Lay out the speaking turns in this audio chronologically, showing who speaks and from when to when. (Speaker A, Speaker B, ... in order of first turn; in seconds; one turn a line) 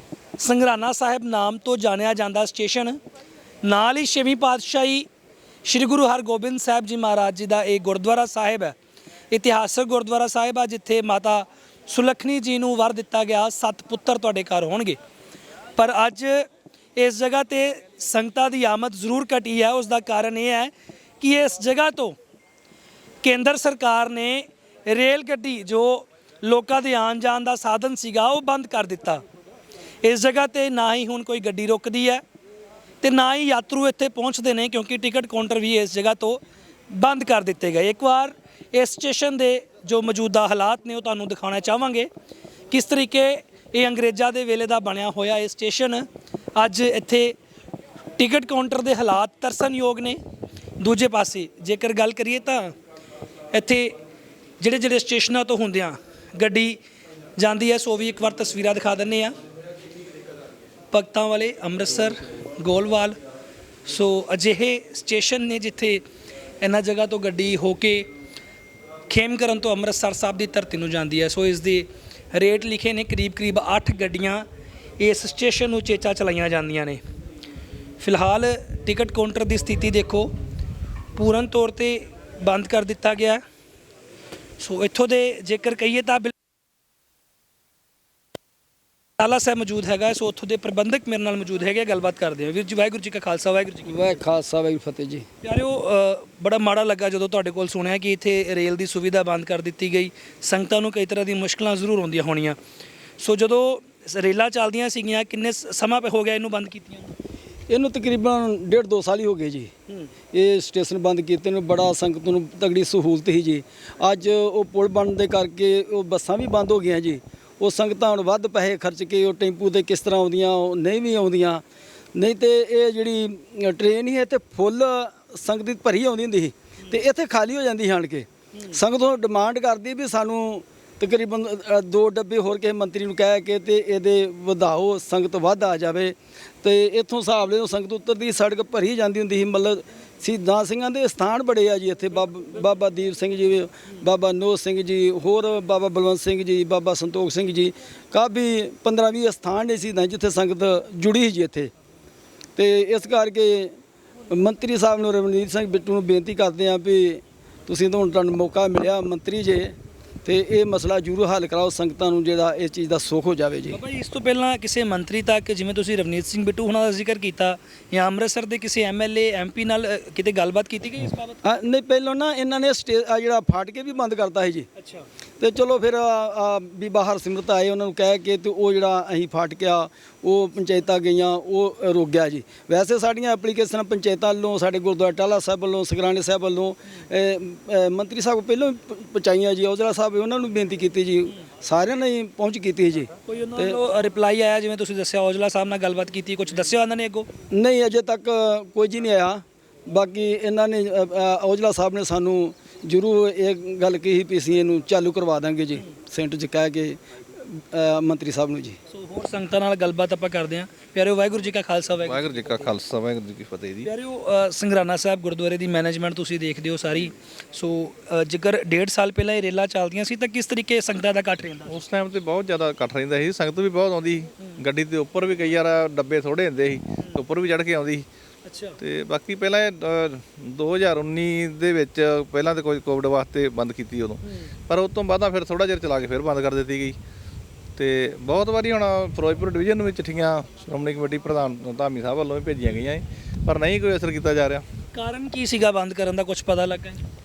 Speaker A: 0.4-3.0
Speaker A: 3.6-5.1
Speaker A: 5.7-8.8
Speaker A: 9.3-15.0
Speaker A: 15.8-22.2
Speaker A: 23.2-29.2
Speaker A: 30.0-32.2
Speaker A: 33.0-42.1
Speaker A: 42.7-47.4
Speaker A: 48.2-50.2
Speaker A: 50.8-52.7
Speaker A: 53.5-53.9
Speaker A: 54.6-56.8
Speaker A: 57.4-59.3
Speaker A: 60.9-63.2
Speaker A: 63.9-66.0
Speaker A: 66.6-68.1
Speaker A: 69.1-74.5
Speaker A: 75.0-77.0
Speaker A: 78.0-80.3
Speaker A: 81.2-83.4
Speaker A: 84.6-86.3
Speaker A: 89.2-94.1
Speaker B: 93.9-95.3
Speaker A: 95.4-102.6
Speaker A: 103.2-107.1
Speaker B: 107.7-109.7
Speaker B: 110.3-121.6
Speaker B: 122.2-151.7
Speaker B: 152.6-153.8
Speaker B: 154.3-163.8
Speaker A: 163.7-171.4
Speaker B: 171.4-174.7
Speaker A: 174.8-175.1
Speaker B: 175.4-193.8
Speaker A: 193.3-197.3
Speaker B: 197.5-208.8
Speaker A: 208.9-212.6
Speaker C: 212.1-213.9
Speaker A: 213.8-221.8
Speaker C: 221.7-228.1
Speaker A: 228.4-228.8
Speaker C: 228.8-237.0
Speaker A: 234.2-234.5
Speaker C: 237.8-244.6
Speaker A: 244.9-247.0